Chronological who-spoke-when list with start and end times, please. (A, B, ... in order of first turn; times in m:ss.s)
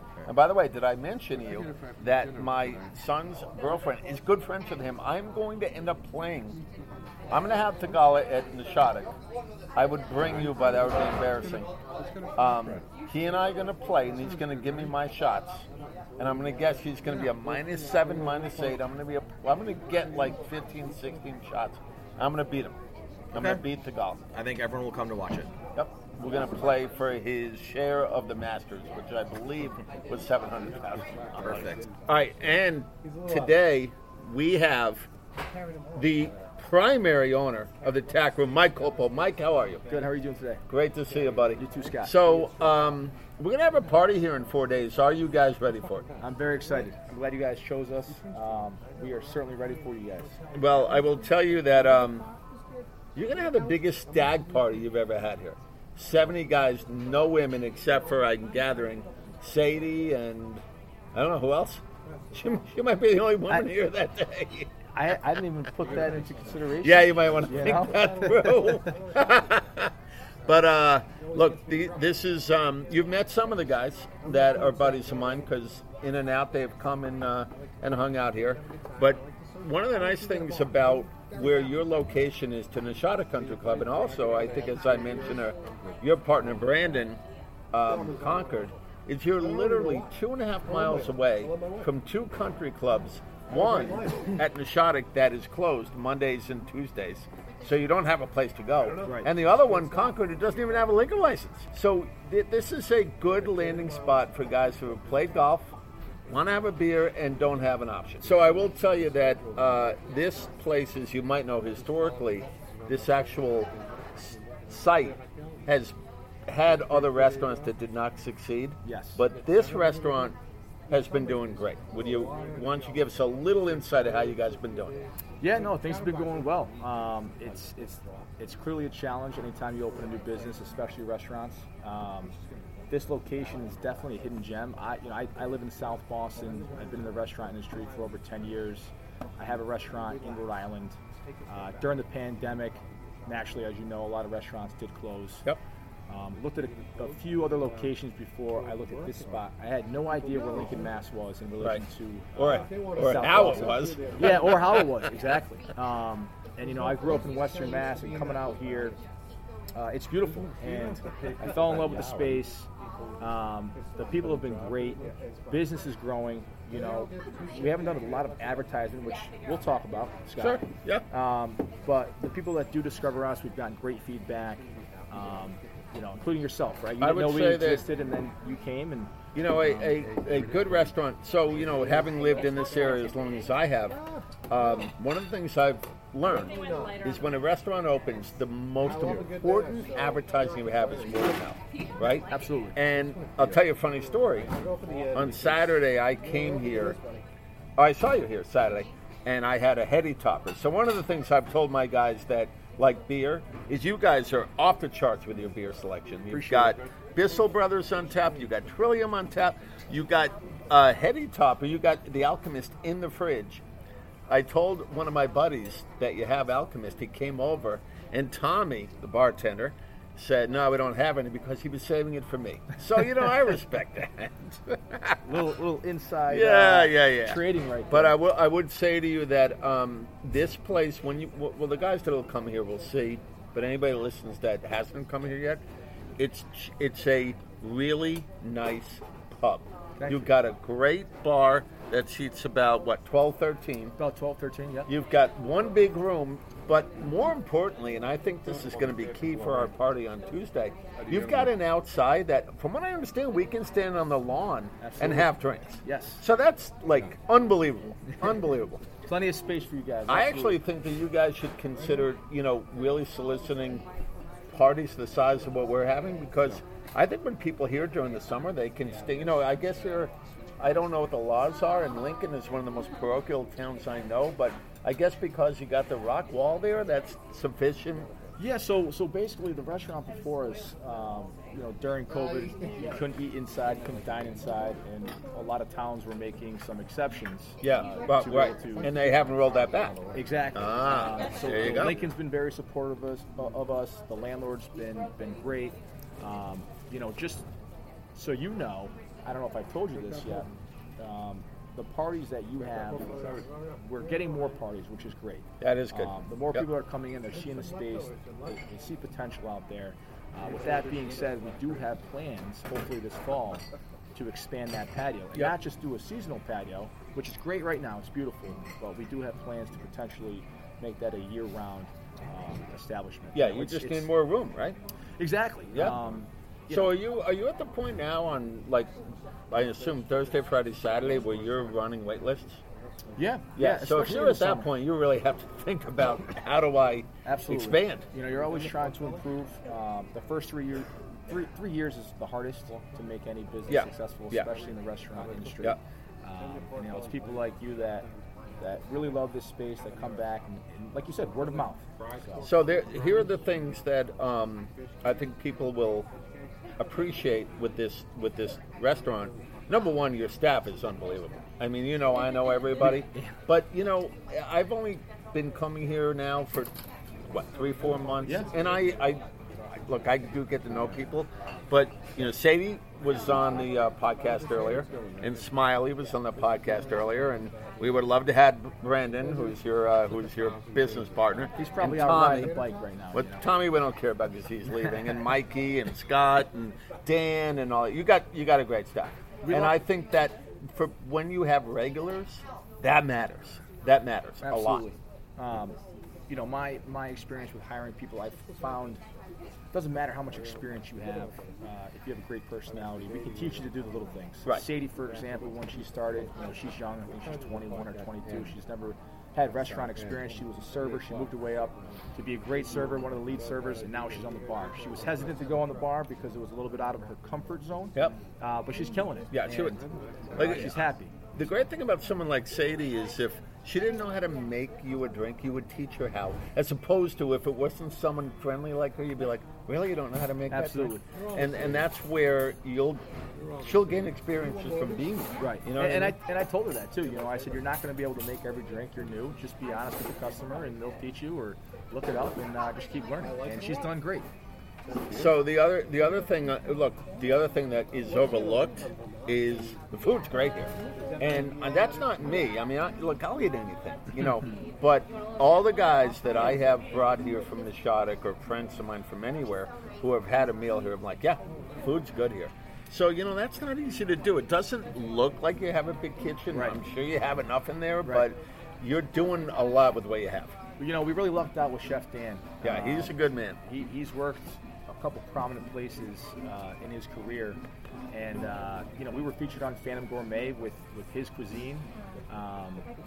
0:00.3-0:06.6 A
0:07.3-0:09.1 A
0:09.8-0:11.7 A
0:12.4-0:15.6 A
0:16.2-0:22.8 A
0:23.3-0:23.6 B
0:23.3-0:24.2 A
0:24.3-0:25.5 B
0:25.8-0:35.1 A
0:31.4-0:31.8 B
0:36.0-0:39.8 A
0:39.9-0:40.6 C
0:40.7-0:46.0 A
0:41.6-0:42.1 C
0:46.2-0:50.4 C
0:50.5-0:52.3 A
0:53.1-1:04.7 A
1:04.9-1:08.7 C
1:06.8-1:09.9 A
1:10.5-1:27.2 A
1:27.7-1:45.7 A
1:39.0-1:39.3 C
1:46.3-1:56.0 A
1:56.5-2:00.4 A
1:58.8-1:59.2 C
2:00.9-2:05.0 A
2:05.4-2:12.3 C
2:12.9-2:21.0 C
2:21.5-2:25.4 C
2:26.1-2:39.0 C
2:32.4-2:34.9 A
2:39.8-2:42.7 C
2:43.2-3:00.0 C
2:50.4-2:51.1 A
2:57.0-2:57.8 A
2:59.4-3:04.0 A
3:04.5-3:14.5 A
3:12.3-3:12.8 C
3:15.1-3:17.0 A
3:17.8-3:33.6 A
3:26.3-3:26.8 C
3:34.3-3:45.2 A
3:45.2-3:48.2 C
3:46.3-3:55.6 A
3:56.2-4:04.0 A
4:00.0-4:00.3 C
4:04.0-4:04.9 C
4:04.9-4:18.8 A
4:14.8-4:16.2 C
4:19.1-4:20.6 C
4:20.1-4:23.8 A
4:24.5-4:38.1 A
4:38.4-4:48.9 C
4:47.6-4:50.0 A
4:50.1-4:57.5 C
4:50.6-4:52.0 A
4:58.1-5:24.1 C
5:05.6-5:06.6 A
5:23.3-5:24.8 A
5:25.2-5:26.9 C
5:25.7-5:26.0 A
5:26.7-5:28.9 A
5:29.5-5:32.6 A
5:33.2-5:34.7 C
5:33.6-5:38.1 A
5:37.2-5:48.1 C
5:43.7-5:44.5 A
5:48.6-5:52.5 C
5:52.4-5:56.1 A
5:56.8-6:06.7 A
6:07.3-6:09.2 A
6:09.8-6:22.6 A
6:21.6-6:23.4 C
6:23.1-6:34.8 A
6:24.7-6:25.0 C
6:29.4-6:29.8 C
6:34.4-6:35.8 C
6:36.3-6:39.0 C
6:39.7-6:59.8 C
6:59.3-6:59.8 A
7:00.3-7:01.1 C
7:00.4-7:00.8 A
7:01.4-7:13.0 A
7:10.5-7:11.0 C
7:13.6-7:16.2 A
7:15.4-7:24.3 C
7:25.1-7:50.6 A
7:46.5-7:46.8 C
7:50.8-8:02.8 C
7:52.6-7:53.6 A